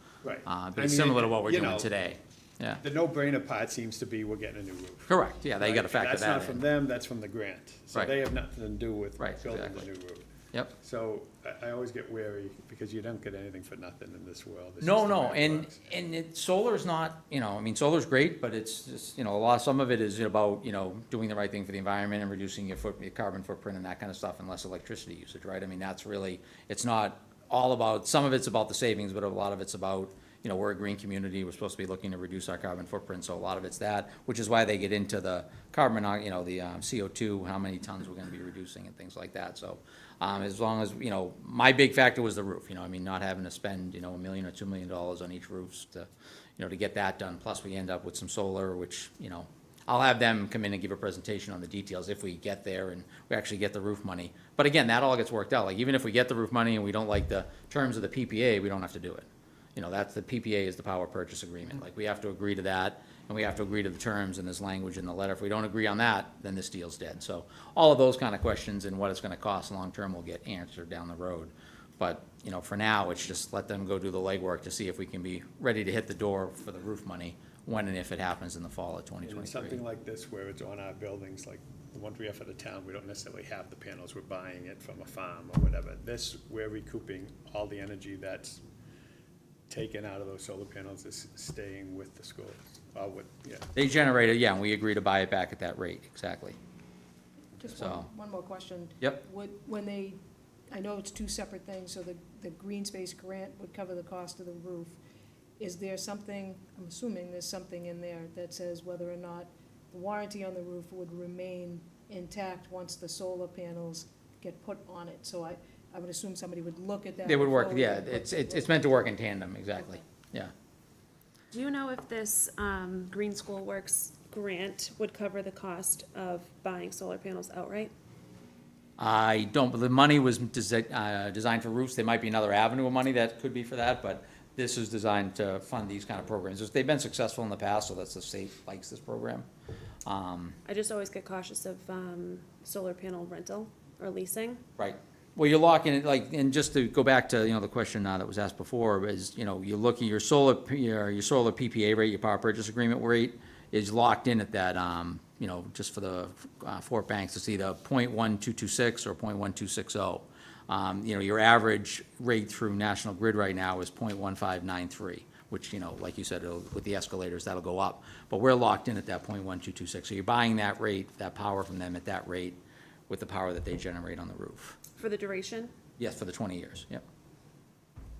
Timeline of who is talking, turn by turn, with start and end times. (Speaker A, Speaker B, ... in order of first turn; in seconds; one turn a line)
Speaker A: 0.2-1.9
Speaker B: 0.4-2.8
Speaker A: 2.8-15.9
Speaker B: 5.1-6.6
Speaker B: 9.2-9.9
Speaker B: 14.8-79.8
Speaker A: 79.2-88.6
Speaker A: 89.7-93.7
Speaker B: 93.7-96.6
Speaker C: 97.6-105.0
Speaker B: 97.7-98.1
Speaker C: 105.6-118.8
Speaker B: 117.2-120.5
Speaker D: 121.5-127.9
Speaker B: 129.0-139.5
Speaker B: 140.1-140.6
Speaker D: 140.6-144.6
Speaker B: 144.8-174.8
Speaker D: 175.0-175.7
Speaker B: 176.0-177.0